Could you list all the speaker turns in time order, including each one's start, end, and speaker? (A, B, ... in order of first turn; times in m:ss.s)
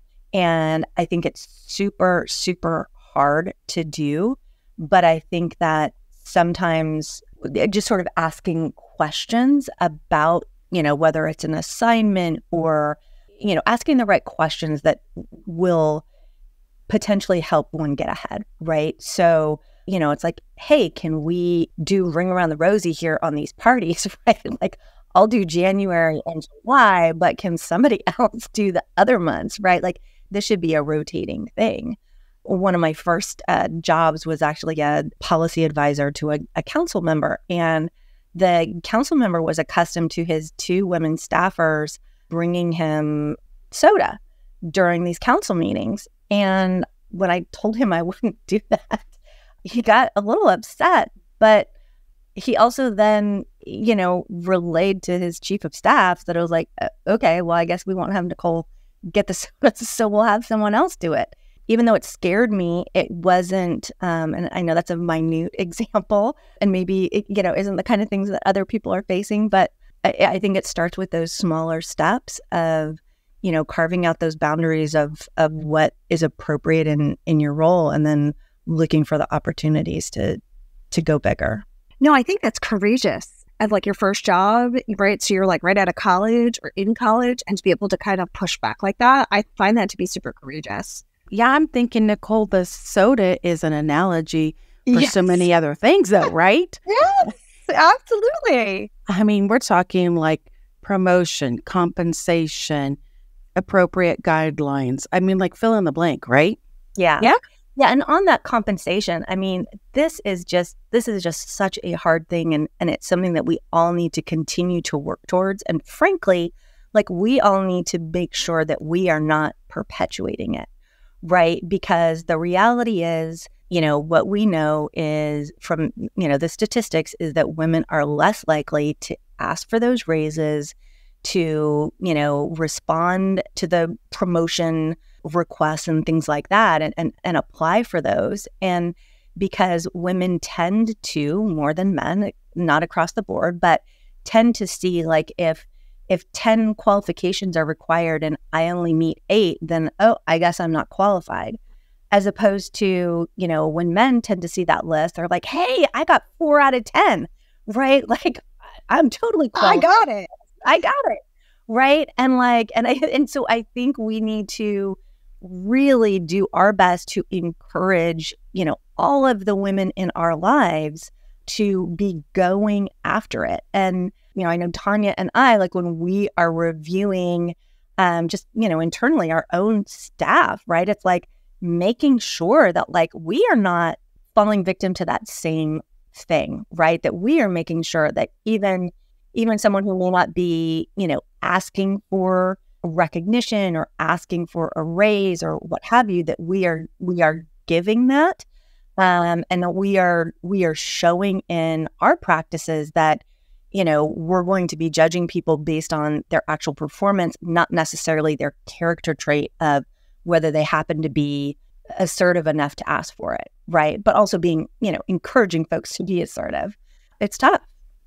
0:00.3-0:16.0 A
0:16.9-0:49.1 A
0:49.7-0:51.7 A
0:52.4-1:20.4 A
1:20.9-1:21.6 A
1:22.0-1:31.0 B
1:31.3-1:36.8 C
1:34.9-1:35.4 A
1:36.9-1:38.9 B
1:39.1-1:43.0 C
1:43.6-1:46.6 C
1:47.0-2:00.7 A
2:01.2-2:31.6 A
2:32.1-2:39.9 A
2:39.6-2:40.3 B
2:40.6-3:18.4 A
3:19.0-3:37.6 A